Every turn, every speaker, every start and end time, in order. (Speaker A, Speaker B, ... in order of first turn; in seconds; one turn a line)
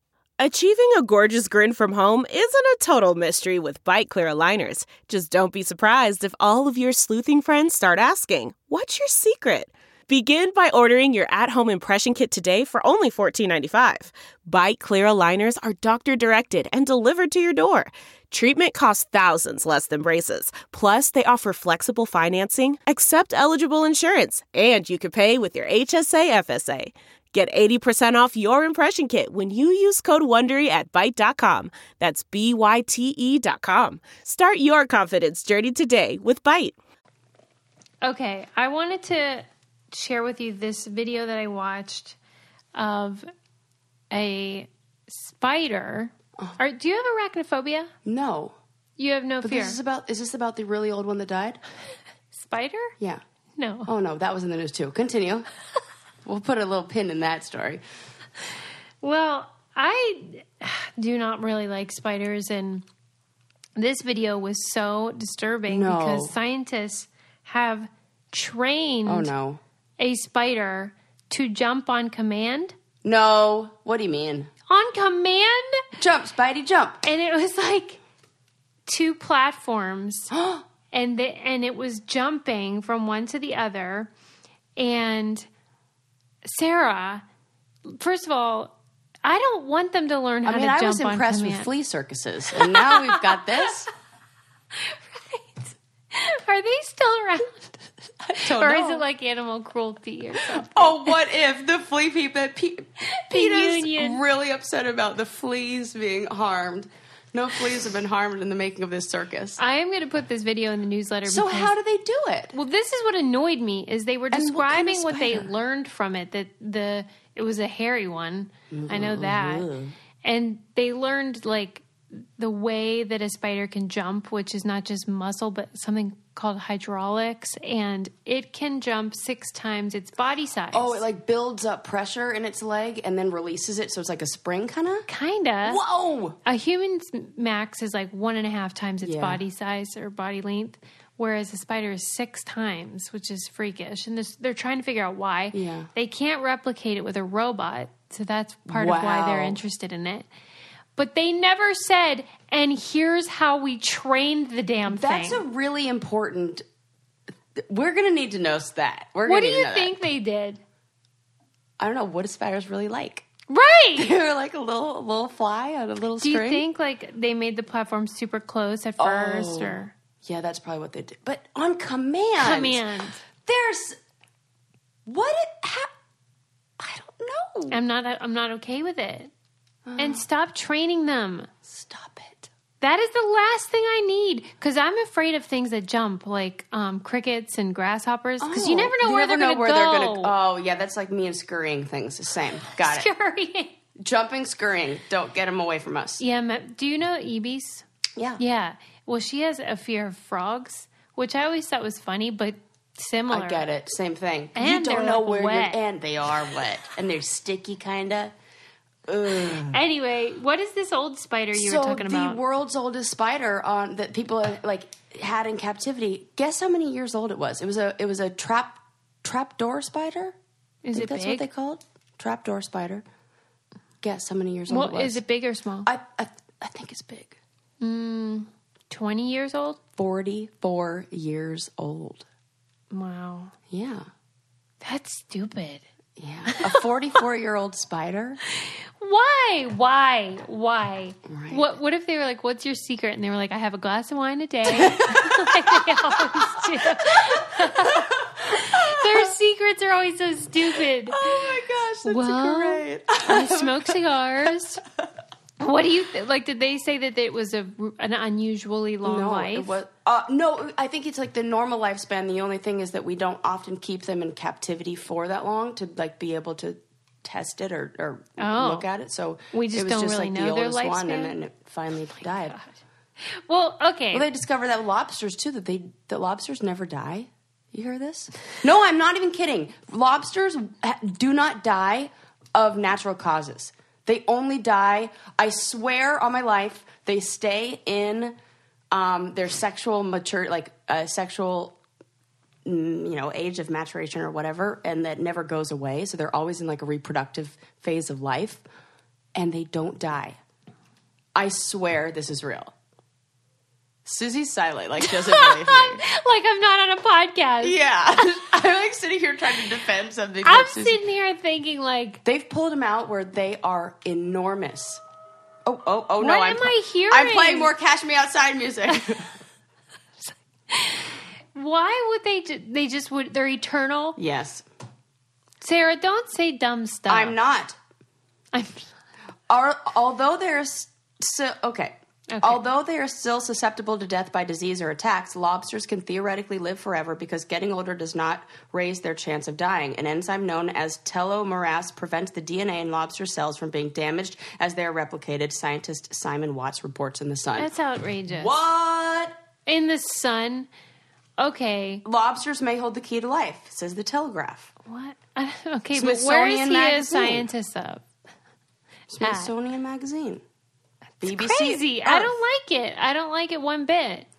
Speaker A: 0.4-36.7
Speaker B: 38.0-42.2
Speaker B: 42.7-43.3
Speaker B: 44.1-47.9
Speaker C: 48.0-48.5
Speaker B: 49.0-49.8
Speaker C: 49.4-51.6
Speaker B: 52.3-52.9
Speaker B: 53.6-53.9
Speaker C: 53.9-55.5
Speaker C: 56.2-57.8
Speaker B: 59.0-62.8
Speaker B: 63.8-69.3
Speaker C: 65.7-66.3
Speaker C: 69.0-69.6
Speaker B: 70.0-72.7
Speaker C: 73.0-74.5
Speaker B: 74.7-75.8
Speaker C: 76.0-77.0
Speaker B: 77.0-78.0
Speaker B: 78.8-80.3
Speaker C: 80.3-80.7
Speaker B: 80.9-84.1
Speaker B: 84.8-85.5
Speaker B: 86.4-87.2
Speaker B: 87.8-91.7
Speaker C: 90.4-93.9
Speaker B: 92.7-93.3
Speaker B: 94.7-101.0
Speaker C: 98.3-99.0
Speaker C: 100.5-109.6
Speaker B: 103.0-104.2
Speaker B: 109.6-111.7
Speaker C: 111.2-112.6
Speaker B: 112.5-119.7
Speaker C: 114.3-115.5
Speaker C: 118.7-120.0
Speaker B: 120.2-131.0
Speaker C: 130.7-135.1
Speaker B: 135.1-135.8
Speaker C: 135.6-136.4
Speaker B: 136.4-150.2
Speaker C: 139.0-139.4
Speaker C: 145.5-145.9
Speaker C: 148.7-149.6
Speaker B: 150.9-155.4
Speaker C: 154.8-156.6
Speaker C: 157.5-159.9
Speaker B: 159.2-160.6
Speaker C: 161.8-163.3
Speaker B: 163.5-164.1
Speaker C: 163.9-166.6
Speaker B: 166.2-169.9
Speaker C: 169.0-174.0
Speaker B: 172.4-173.2
Speaker C: 175.1-175.9
Speaker C: 176.8-177.8
Speaker B: 177.7-179.3
Speaker C: 179.8-180.2
Speaker B: 180.0-181.5
Speaker C: 181.6-182.5
Speaker B: 182.8-190.3
Speaker C: 188.4-193.1
Speaker B: 192.7-193.8
Speaker C: 194.0-196.2
Speaker B: 196.2-197.8
Speaker B: 198.4-203.7
Speaker C: 203.3-208.3
Speaker B: 204.6-205.8
Speaker C: 209.1-209.8
Speaker B: 209.7-212.4
Speaker C: 211.5-220.3
Speaker B: 220.8-221.5
Speaker C: 220.9-223.0
Speaker C: 224.0-225.2
Speaker B: 224.7-225.9
Speaker C: 225.8-227.4
Speaker B: 227.8-229.8
Speaker C: 229.9-232.2
Speaker B: 232.9-233.5
Speaker C: 233.7-234.1
Speaker B: 234.8-235.8
Speaker C: 236.2-238.4
Speaker B: 236.5-236.8
Speaker B: 238.5-251.5
Speaker C: 241.2-241.7
Speaker C: 244.7-249.3
Speaker C: 250.7-254.0
Speaker B: 252.0-254.8
Speaker B: 255.6-259.8
Speaker C: 259.0-272.6
Speaker B: 268.4-268.9
Speaker B: 269.5-271.4
Speaker B: 273.2-274.3
Speaker C: 274.1-288.3
Speaker C: 288.9-291.8
Speaker C: 292.6-298.6
Speaker C: 299.3-300.4
Speaker C: 301.3-302.7
Speaker C: 304.0-306.0
Speaker B: 305.0-308.3
Speaker C: 307.6-311.0
Speaker B: 310.4-312.2
Speaker C: 312.2-315.0
Speaker C: 315.6-319.3
Speaker B: 316.2-317.7
Speaker B: 320.2-324.2
Speaker C: 324.2-324.6
Speaker B: 325.6-327.4
Speaker C: 327.1-327.8
Speaker B: 328.5-328.9
Speaker C: 329.5-347.7
Speaker B: 332.3-332.6
Speaker B: 347.6-348.5
Speaker C: 348.3-349.4
Speaker B: 349.7-350.7
Speaker B: 351.4-352.0
Speaker C: 352.0-354.7
Speaker B: 354.9-358.0
Speaker C: 355.9-357.5
Speaker C: 359.1-360.4
Speaker B: 359.2-359.5
Speaker B: 361.2-364.3
Speaker C: 361.2-362.3